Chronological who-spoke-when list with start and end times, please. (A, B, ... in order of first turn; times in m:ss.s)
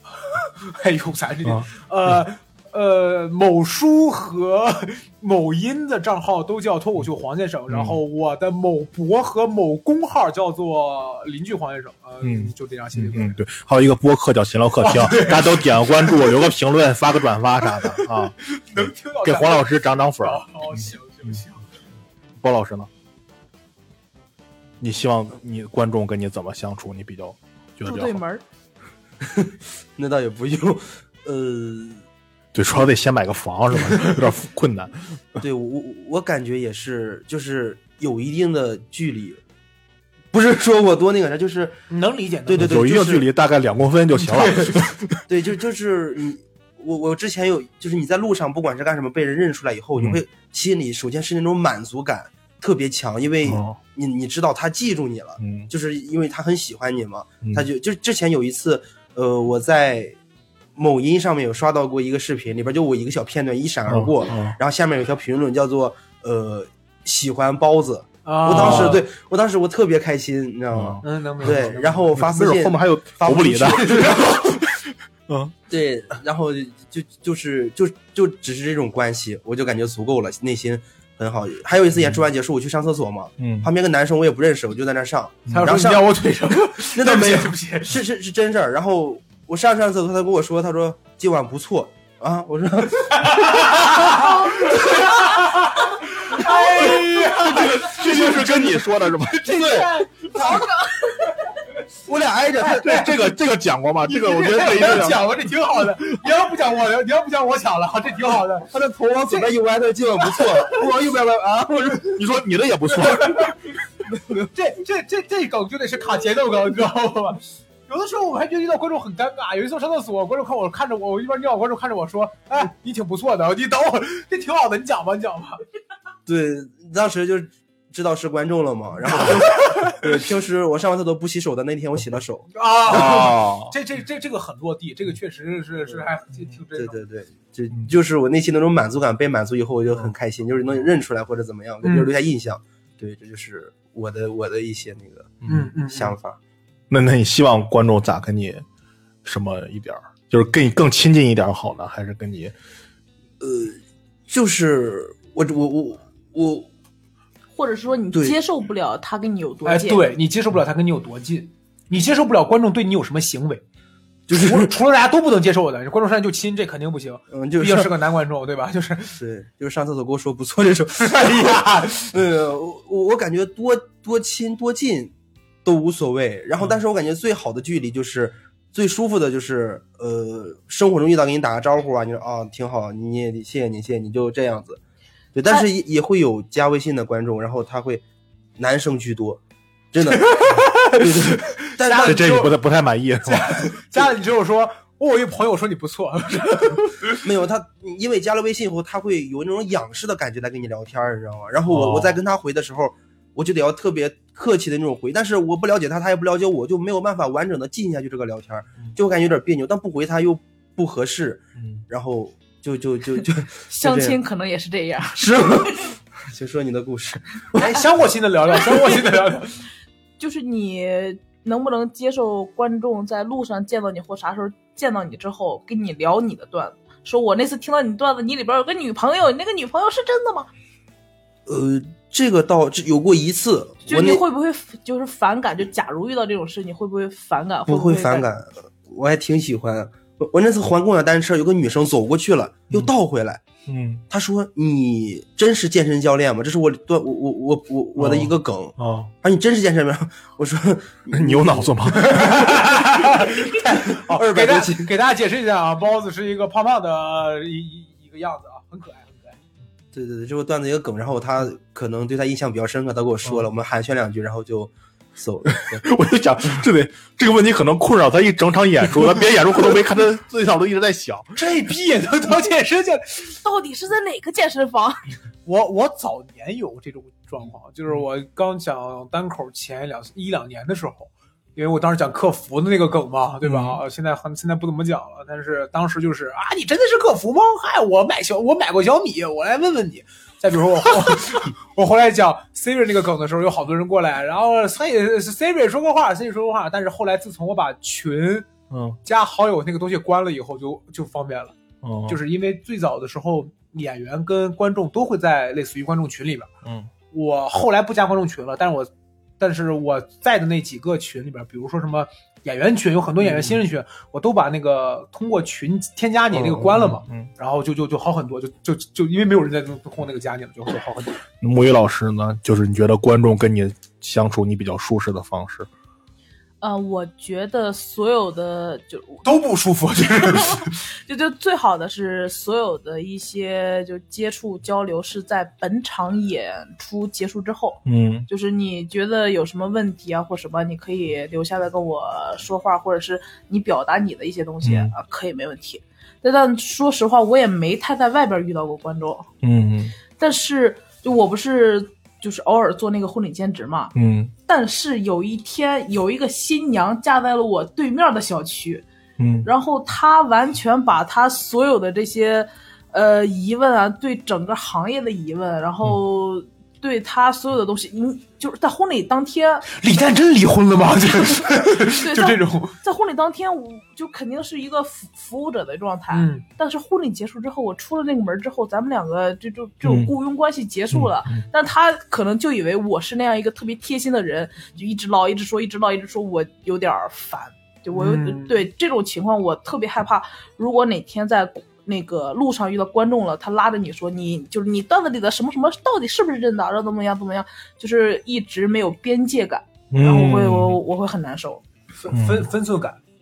0:00.2-0:13.4 A
0:07.7-0:08.0 B
0:12.2-0:21.4 B
0:14.8-0:16.4 A
0:17.7-0:21.6 A
0:22.4-0:22.9 B
0:24.8-0:28.2 B
0:27.8-0:28.4 C
0:29.2-0:32.0 D
0:32.5-0:35.4 B
0:35.4-0:39.4 D
0:40.3-0:41.8 D
0:41.9-0:42.8 A
0:42.4-0:43.2 D
0:42.6-0:45.2 B
0:44.2-0:44.8 A
0:45.3-1:00.2 D
0:53.4-0:53.8 B
0:55.4-0:55.7 B
1:00.8-1:14.5 D
1:03.9-1:04.6 B
1:08.2-1:09.0 A
1:08.5-1:09.0 B
1:10.7-1:15.5 B
1:11.0-1:12.1 A
1:15.7-1:26.1 D
1:23.4-1:23.7 B
1:25.5-1:27.9 A
1:26.9-1:35.0 D
1:33.5-1:40.7 A
1:36.3-1:36.8 D
1:37.4-1:39.9 B
1:39.5-1:40.7 D
1:42.0-1:42.9 D
1:42.6-1:43.2 A
1:42.7-1:45.2 B
1:44.0-1:48.7 A
1:48.7-1:52.2 D
1:50.2-1:50.8 A
1:52.0-1:53.6 B
1:53.1-1:53.5 A
1:54.5-2:05.6 A
2:06.2-2:13.1 D
2:09.1-2:10.1 A
2:12.5-2:17.0 A
2:12.9-2:13.7 B
2:16.8-2:26.4 D
2:21.8-2:22.2 A
2:25.5-2:26.2 A
2:26.9-2:28.6 B
2:29.2-2:32.5 B
2:33.4-2:36.7 D
2:37.5-2:40.0 C
2:39.6-2:43.6 A
2:44.3-2:44.7 D
2:44.3-2:49.2 A
2:47.3-2:47.9 D
2:49.1-2:55.1 D
2:51.0-2:52.0 A
2:55.6-3:04.8 D
3:05.3-3:08.0 D
3:08.6-3:09.4 D
3:09.9-3:12.4 D
3:10.0-3:12.6 A
3:12.0-3:13.7 B
3:13.2-3:17.2 A
3:17.2-3:34.2 D
3:21.7-3:22.2 B
3:33.7-3:35.5 C
3:35.2-3:37.8 D
3:37.6-3:39.6 A
3:40.2-3:50.5 C
3:51.4-3:54.2 D
3:53.8-3:58.3 C
3:57.7-4:03.4 D
4:03.7-4:04.0 B
4:04.1-4:14.9 D
4:08.0-4:09.1 B
4:11.1-4:12.3 B
4:11.9-4:19.4 A
4:19.9-4:25.8 D
4:25.7-4:31.4 B
4:31.4-4:33.4 A
4:33.4-4:35.1 C
4:35.4-4:58.5 A
4:43.4-4:43.8 B
4:58.7-4:59.0 B
4:59.0-5:01.5 A
5:01.8-5:02.2 B
5:02.1-5:06.5 A
5:06.6-5:06.9 B
5:07.1-5:08.9 A
5:09.4-5:21.2 A
5:16.6-5:17.3 B
5:21.4-5:25.7 B
5:26.6-5:29.2 C
5:29.2-5:30.8 A
5:30.2-5:49.3 C
5:37.8-5:38.3 B
5:44.6-5:44.9 B
5:49.4-5:49.9 B
5:50.2-5:53.9 C
5:53.9-5:54.3 B
5:54.5-5:58.8 C
5:59.2-5:59.5 B
5:59.4-6:09.7 C
6:09.7-6:12.8 A
6:11.9-6:41.6 C
6:16.1-6:16.4 A
6:19.8-6:20.1 B
6:20.9-6:21.4 B
6:27.9-6:28.6 A
6:39.9-6:40.8 B
6:42.0-6:43.0 A
6:42.1-6:42.5 B